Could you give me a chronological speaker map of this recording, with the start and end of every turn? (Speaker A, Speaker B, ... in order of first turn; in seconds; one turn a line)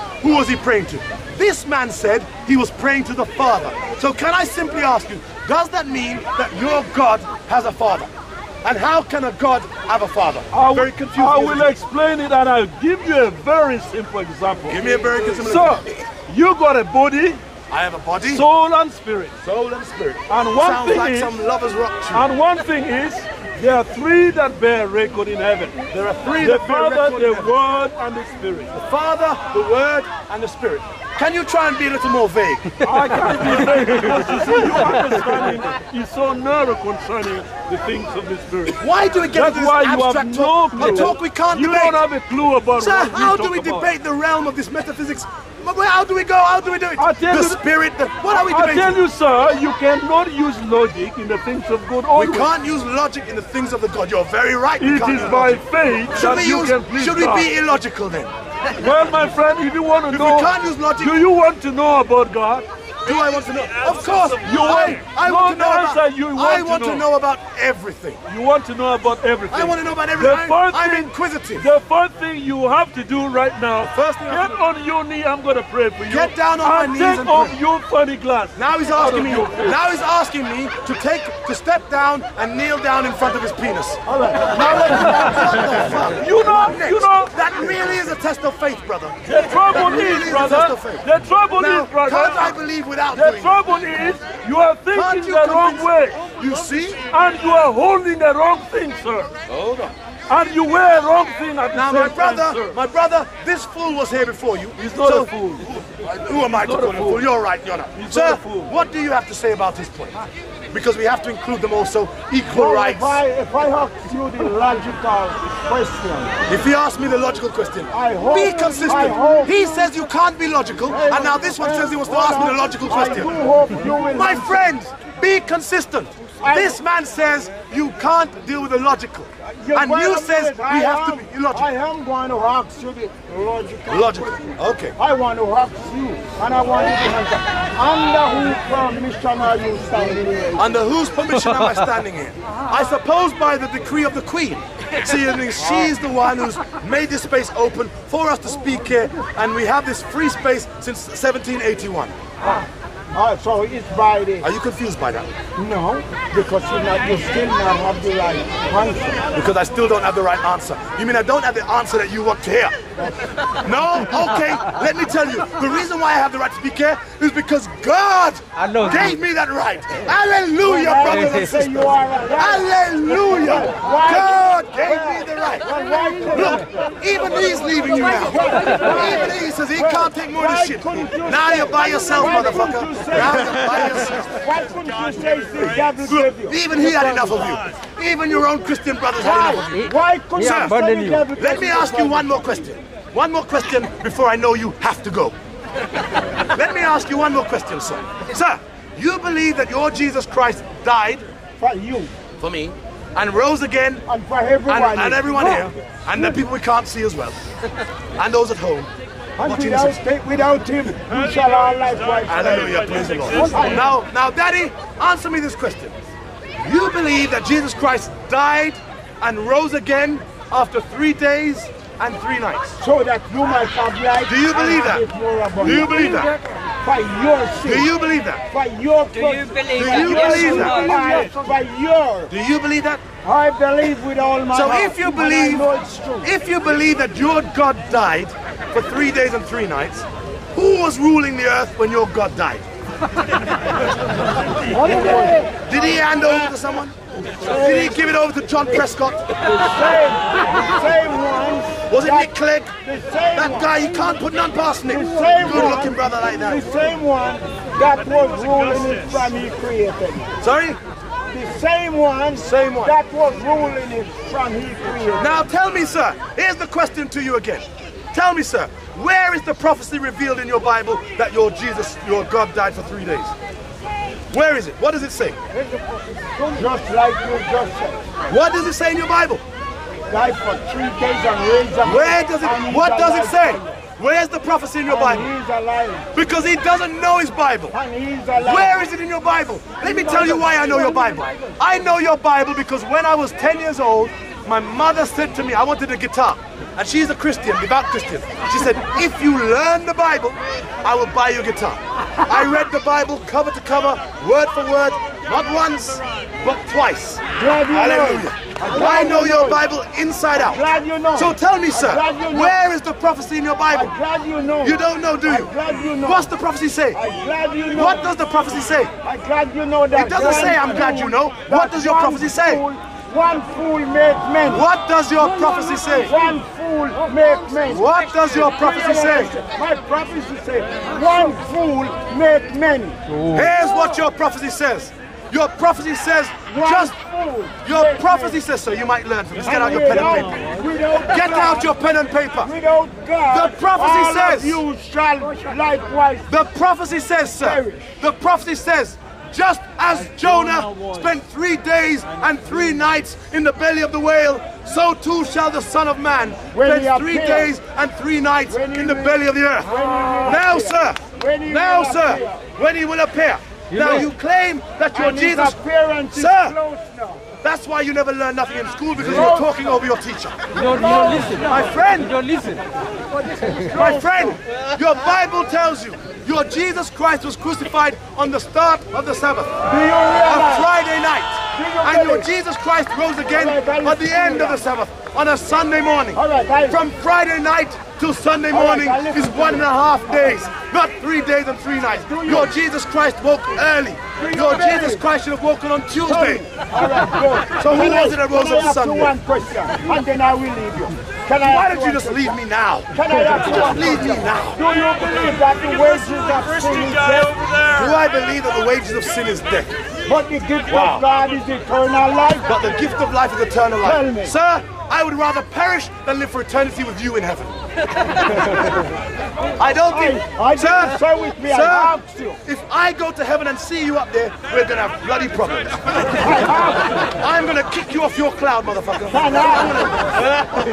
Speaker A: 0.2-8.1
Speaker A: 8.6-11.8
Speaker B: 10.5-17.4
Speaker A: 14.7-16.0
Speaker A: 17.7-18.5
Speaker B: 18.2-19.4
Speaker A: 19.4-22.3
Speaker B: 20.3-21.4
Speaker B: 22.1-25.9
Speaker A: 25.9-27.5
Speaker B: 26.4-28.7
Speaker A: 28.7-32.8
Speaker B: 32.8-38.8
Speaker A: 38.7-42.0
Speaker B: 39.3-43.9
Speaker A: 42.8-49.0
Speaker B: 47.0-47.6
Speaker B: 48.3-52.5
Speaker A: 52.1-58.3
Speaker B: 54.8-57.5
Speaker B: 58.8-67.1
Speaker A: 60.1-61.2
Speaker A: 63.0-68.2
Speaker B: 68.3-79.8
Speaker A: 69.5-71.7
Speaker A: 73.8-74.6
Speaker A: 76.1-77.6
Speaker A: 78.5-84.0
Speaker C: 84.1-86.0
Speaker A: 85.0-93.6
Speaker B: 86.1-87.5
Speaker B: 89.2-92.6
Speaker B: 93.1-96.2
Speaker A: 94.9-97.0
Speaker B: 97.1-99.3
Speaker A: 99.5-99.9
Speaker B: 100.3-102.8
Speaker A: 101.7-110.2
Speaker B: 104.8-105.7
Speaker B: 106.4-107.2
Speaker B: 108.0-108.7
Speaker A: 110.7-113.2
Speaker C: 112.5-116.4
Speaker A: 116.5-123.3
Speaker C: 117.9-119.9
Speaker C: 120.9-124.7
Speaker A: 124.1-131.7
Speaker C: 126.4-126.8
Speaker C: 129.4-140.7
Speaker A: 133.9-135.0
Speaker A: 140.6-152.1
Speaker C: 153.1-154.5
Speaker A: 154.4-155.3
Speaker C: 155.6-159.2
Speaker A: 159.3-162.8
Speaker C: 162.9-163.3
Speaker A: 163.6-175.7
Speaker C: 170.6-176.8
Speaker A: 176.3-184.4
Speaker C: 177.8-187.3
Speaker A: 186.1-189.8
Speaker C: 189.2-192.5
Speaker A: 190.4-190.8
Speaker D: 190.8-191.2
Speaker A: 191.3-195.3
Speaker A: 196.4-201.2
Speaker C: 201.6-202.1
Speaker A: 202.4-204.1
Speaker C: 204.1-205.7
Speaker A: 204.7-207.4
Speaker A: 208.2-208.9
Speaker C: 209.4-213.9
Speaker A: 209.4-210.0
Speaker B: 212.0-213.9
Speaker A: 212.3-216.0
Speaker A: 216.6-222.8
Speaker C: 222.8-226.3
Speaker A: 224.3-225.1
Speaker A: 225.6-226.4
Speaker C: 226.8-227.9
Speaker A: 227.6-228.4
Speaker C: 228.5-232.3
Speaker D: 229.4-231.0
Speaker A: 229.8-230.9
Speaker A: 232.3-233.0
Speaker C: 233.2-236.3
Speaker A: 234.5-235.7
Speaker A: 236.2-242.7
Speaker C: 244.7-245.5
Speaker A: 245.7-246.9
Speaker C: 247.3-248.0
Speaker A: 247.5-249.3
Speaker C: 249.4-253.9
Speaker A: 251.9-252.7
Speaker A: 253.3-256.6
Speaker C: 254.9-260.3
Speaker A: 260.4-260.8
Speaker C: 261.3-265.4
Speaker A: 262.4-263.0
Speaker A: 265.2-273.3
Speaker A: 274.3-275.4
Speaker C: 275.5-278.1
Speaker A: 278.3-279.4
Speaker C: 280.1-283.8
Speaker A: 281.8-285.3
Speaker C: 284.9-286.1
Speaker A: 286.1-287.7
Speaker C: 287.7-288.9
Speaker A: 288.4-313.9
Speaker C: 307.4-309.6
Speaker C: 310.4-312.6
Speaker C: 313.7-316.3
Speaker A: 314.6-317.0
Speaker C: 317.0-318.1
Speaker A: 317.8-318.9
Speaker C: 319.0-324.6
Speaker A: 319.9-322.6
Speaker A: 324.5-326.1
Speaker C: 325.9-327.9
Speaker A: 327.7-329.4
Speaker C: 328.5-333.0
Speaker A: 333.3-337.0
Speaker C: 336.5-338.4
Speaker A: 337.6-340.5
Speaker C: 339.4-341.7
Speaker A: 341.1-342.5
Speaker C: 342.4-346.3
Speaker A: 343.3-344.6
Speaker A: 346.3-359.7
Speaker C: 347.4-348.0
Speaker C: 356.5-357.5
Speaker C: 358.5-362.5
Speaker A: 360.2-365.6
Speaker C: 364.9-367.2
Speaker A: 366.1-366.6
Speaker A: 367.4-370.4
Speaker C: 369.1-369.5
Speaker C: 370.6-371.4
Speaker D: 370.7-371.5
Speaker A: 371.5-372.3
Speaker D: 372.1-372.6
Speaker C: 373.3-374.4
Speaker A: 373.7-379.5
Speaker C: 379.6-380.7
Speaker A: 380.3-396.5
Speaker C: 381.5-382.3
Speaker C: 383.3-384.7
Speaker C: 386.1-386.8
Speaker C: 388.5-390.4
Speaker C: 392.0-392.6
Speaker C: 394.2-395.1
Speaker C: 396.0-402.4
Speaker A: 397.6-399.1
Speaker A: 401.4-404.6
Speaker C: 402.9-407.4
Speaker B: 405.8-407.9
Speaker A: 407.7-409.8
Speaker C: 410.1-412.5
Speaker A: 410.7-411.1
Speaker A: 412.4-417.6
Speaker C: 413.8-414.3
Speaker A: 419.6-426.2
Speaker C: 419.9-422.4
Speaker C: 426.2-427.1
Speaker A: 427.0-430.0
Speaker C: 429.1-430.0